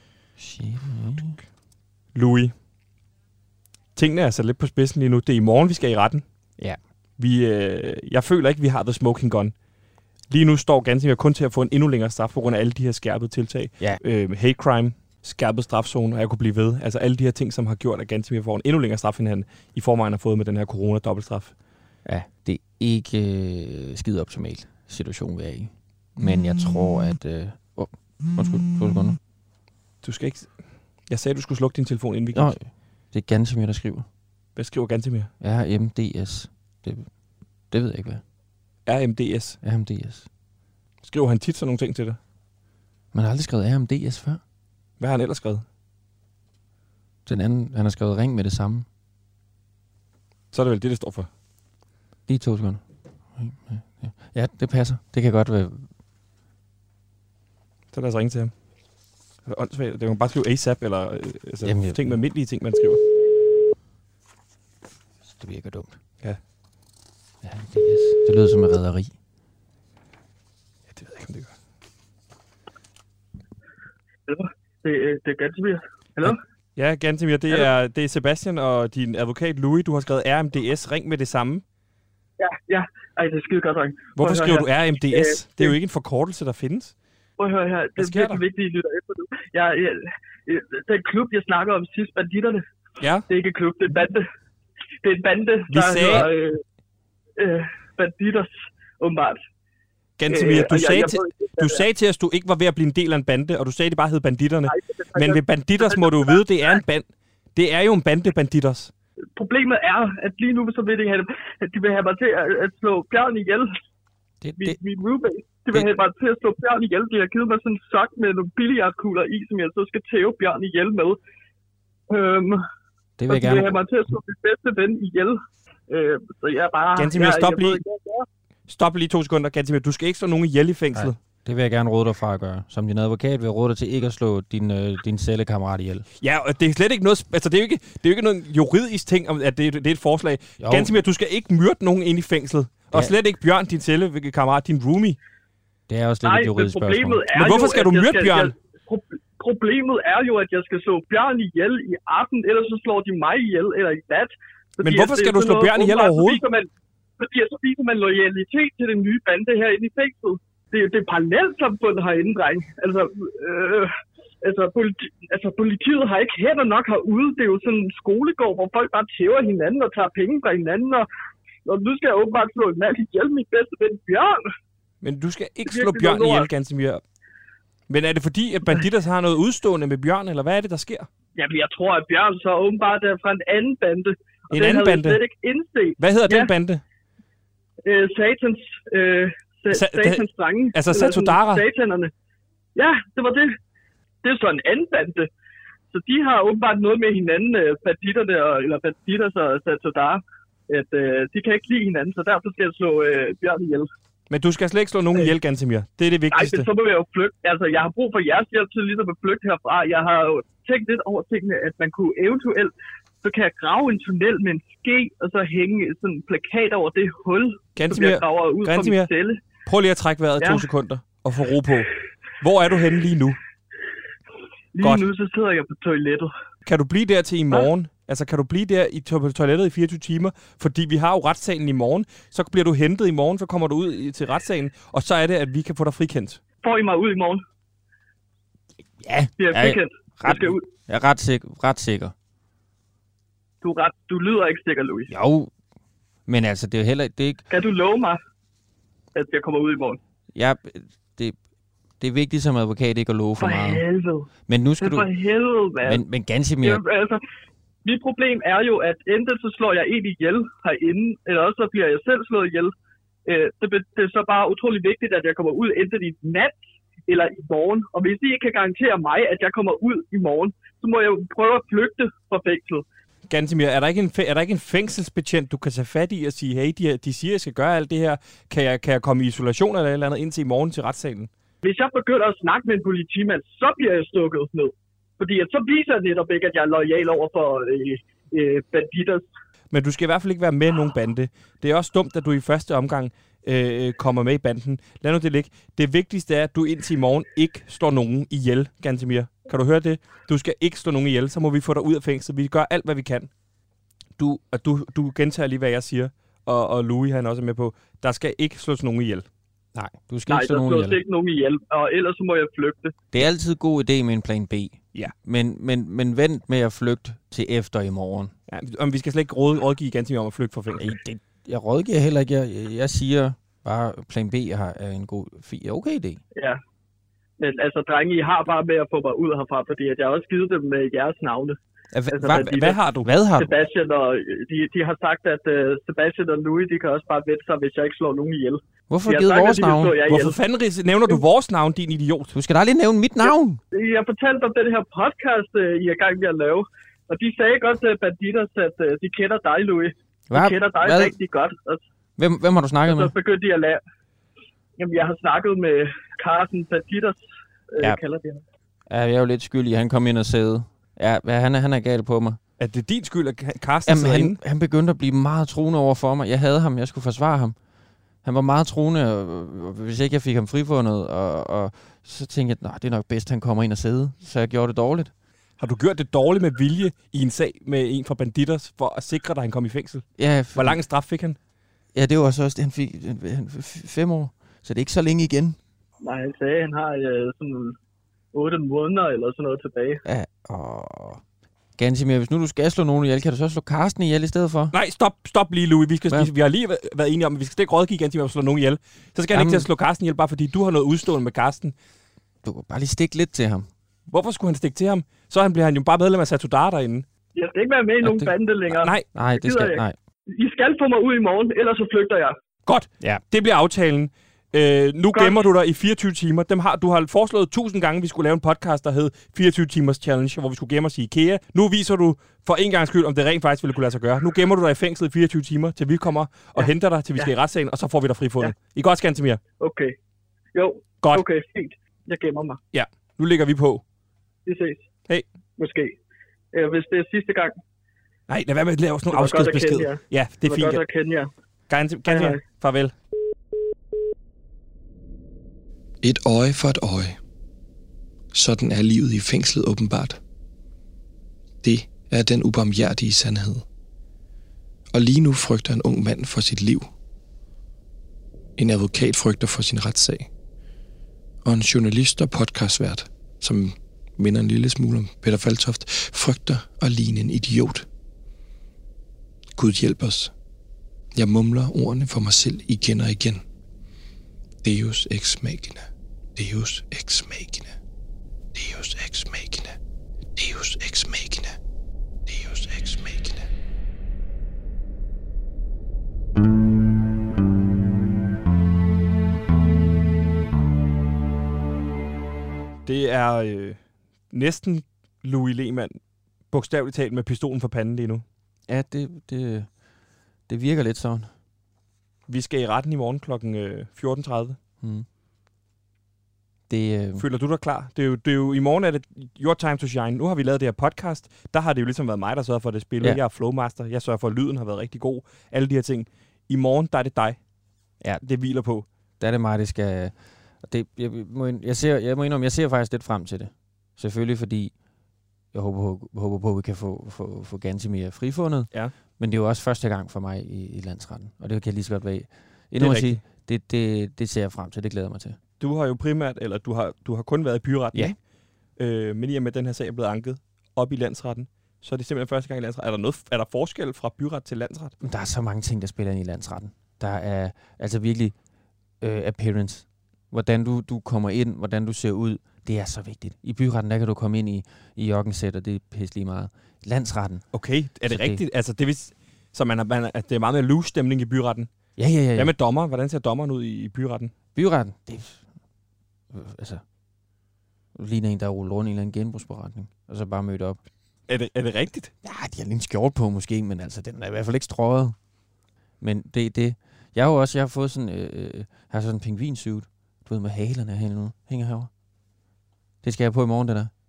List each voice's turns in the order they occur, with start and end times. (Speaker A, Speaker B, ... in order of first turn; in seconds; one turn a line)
Speaker A: 0.4-1.4
Speaker B: 2.1-2.5
Speaker B: 4.0-6.2
Speaker B: 7.2-9.5
Speaker B: 10.3-21.5
Speaker A: 22.1-29.2
Speaker B: 30.0-30.5
Speaker B: 31.1-32.5
Speaker A: 32.3-34.1
Speaker B: 34.6-35.3
Speaker A: 35.4-37.1
Speaker A: 37.7-38.2
Speaker B: 38.9-39.6
Speaker A: 39.6-40.3
Speaker B: 41.0-42.2
Speaker A: 43.1-44.4
Speaker B: 45.0-45.6
Speaker A: 47.3-48.9
Speaker B: 50.5-51.3
Speaker A: 52.3-52.8
Speaker A: 53.4-55.9
Speaker B: 57.9-58.5
Speaker B: 59.5-63.0
Speaker A: 61.6-62.2
Speaker A: 65.3-66.0
Speaker A: 67.4-69.1
Speaker B: 70.9-71.5
Speaker C: 74.3-76.4
Speaker B: 76.8-81.6
Speaker C: 82.4-85.8
Speaker B: 84.2-87.0
Speaker C: 87.4-92.6
Speaker B: 88.0-88.4
Speaker B: 93.0-93.3
Speaker C: 93.3-94.2
Speaker C: 95.0-96.6
Speaker B: 95.7-96.3
Speaker C: 97.4-99.4
Speaker B: 100.2-108.9
Speaker C: 100.3-101.8
Speaker C: 104.7-106.8
Speaker C: 109.4-113.7
Speaker A: 114.4-114.8
Speaker C: 114.6-121.2
Speaker C: 122.1-122.6
Speaker A: 123.2-123.8
Speaker C: 123.3-125.4
Speaker C: 125.9-128.2
Speaker B: 127.0-127.8
Speaker B: 128.7-131.2
Speaker A: 130.9-136.1
Speaker B: 136.2-145.2
Speaker A: 140.6-140.9
Speaker A: 145.9-147.2
Speaker C: 146.2-156.7
Speaker B: 147.3-148.5
Speaker B: 154.8-156.4
Speaker C: 157.2-163.9
Speaker C: 164.4-171.1
Speaker C: 171.7-174.4
Speaker B: 175.0-177.0
Speaker C: 175.7-176.5
Speaker B: 177.9-181.1
Speaker C: 181.4-186.5
Speaker B: 184.5-185.2
Speaker B: 186.0-186.8
Speaker C: 187.8-192.1
Speaker B: 189.7-191.6
Speaker C: 192.8-193.5
Speaker C: 194.2-195.3
Speaker C: 195.9-203.9
Speaker B: 204.3-206.7
Speaker C: 206.3-212.7
Speaker C: 213.2-219.4
Speaker B: 217.8-219.1
Speaker B: 219.7-223.4
Speaker C: 220.4-220.7
Speaker C: 224.7-226.3
Speaker B: 224.8-225.1
Speaker B: 226.7-236.4
Speaker C: 236.6-237.4
Speaker A: 239.0-242.1
Speaker C: 239.4-240.6
Speaker C: 243.6-245.1
Speaker A: 245.1-245.5
Speaker A: 246.3-247.4
Speaker C: 247.5-248.2
Speaker C: 249.2-250.0
Speaker A: 250.3-251.4
Speaker A: 252.0-253.8
Speaker C: 253.4-254.3
Speaker A: 254.5-255.1
Speaker C: 254.8-256.0
Speaker A: 255.8-256.8
Speaker C: 256.6-257.2
Speaker C: 257.8-262.7
Speaker C: 263.3-272.9
Speaker B: 273.3-281.3
Speaker C: 281.6-289.2
Speaker B: 289.7-303.3
Speaker B: 304.2-309.3
Speaker A: 309.8-311.0
Speaker C: 310.3-312.9
Speaker A: 313.1-318.3
Speaker B: 318.5-321.0
Speaker A: 320.8-326.2
Speaker C: 327.4-331.6
Speaker A: 331.9-332.5
Speaker C: 332.1-332.8
Speaker B: 332.3-333.1
Speaker A: 333.0-333.5
Speaker C: 333.4-340.4
Speaker A: 338.9-340.0
Speaker B: 340.0-342.3
Speaker A: 342.3-343.6
Speaker C: 343.7-351.8
Speaker A: 350.3-351.1
Speaker A: 352.2-353.1
Speaker C: 352.9-353.8
Speaker C: 354.8-357.2
Speaker C: 357.7-358.4
Speaker A: 358.9-362.4
Speaker B: 362.6-364.4
Speaker A: 363.9-367.6
Speaker A: 368.2-375.1
Speaker B: 375.6-381.4
Speaker A: 380.2-380.8
Speaker A: 381.9-385.6
Speaker C: 386.0-387.8
Speaker C: 388.3-390.0
Speaker A: 390.1-391.2
Speaker A: 391.8-394.7
Speaker B: 394.7-401.7
Speaker A: 399.3-399.7
Speaker A: 402.4-403.7
Speaker B: 404.1-407.1
Speaker C: 407.4-412.4
Speaker A: 408.0-408.3
Speaker B: 408.8-409.1
Speaker A: 409.1-410.0
Speaker B: 412.7-429.4
Speaker C: 415.1-415.5
Speaker C: 426.6-427.3
Speaker C: 429.6-429.9
Speaker C: 430.6-432.6
Speaker B: 432.7-433.8
Speaker C: 434.5-434.9
Speaker C: 435.6-436.0
Speaker C: 436.5-437.5
Speaker B: 438.3-440.8
Speaker C: 439.1-441.3
Speaker B: 441.7-442.9
Speaker C: 442.1-442.4
Speaker D: 446.0-447.2
Speaker D: 448.3-450.2
Speaker D: 451.6-453.6
Speaker D: 454.9-456.9
Speaker D: 458.6-460.3
Speaker D: 461.4-467.9
Speaker D: 469.6-470.3
Speaker D: 471.1-473.4
Speaker D: 474.6-477.7
Speaker D: 478.5-479.8
Speaker D: 480.4-481.6
Speaker D: 482.3-483.5
Speaker B: 492.9-493.8
Speaker B: 494.3-496.0
Speaker B: 496.5-498.2
Speaker A: 498.7-499.7
Speaker A: 500.5-501.3
Speaker B: 502.3-504.6
Speaker A: 506.7-507.2
Speaker B: 507.2-517.4
Speaker B: 518.2-518.9
Speaker A: 519.2-524.7
Speaker A: 525.5-535.4
Speaker B: 532.8-533.2
Speaker B: 535.6-538.1
Speaker B: 538.8-545.0
Speaker A: 545.0-548.4
Speaker A: 549.0-557.5
Speaker B: 557.5-561.7
Speaker A: 558.1-558.4
Speaker A: 562.0-562.5
Speaker B: 562.3-564.3
Speaker A: 564.5-565.5
Speaker A: 566.3-566.8
Speaker A: 568.0-570.8
Speaker B: 571.3-572.1
Speaker A: 572.2-575.1
Speaker A: 576.0-581.9
Speaker A: 583.0-583.9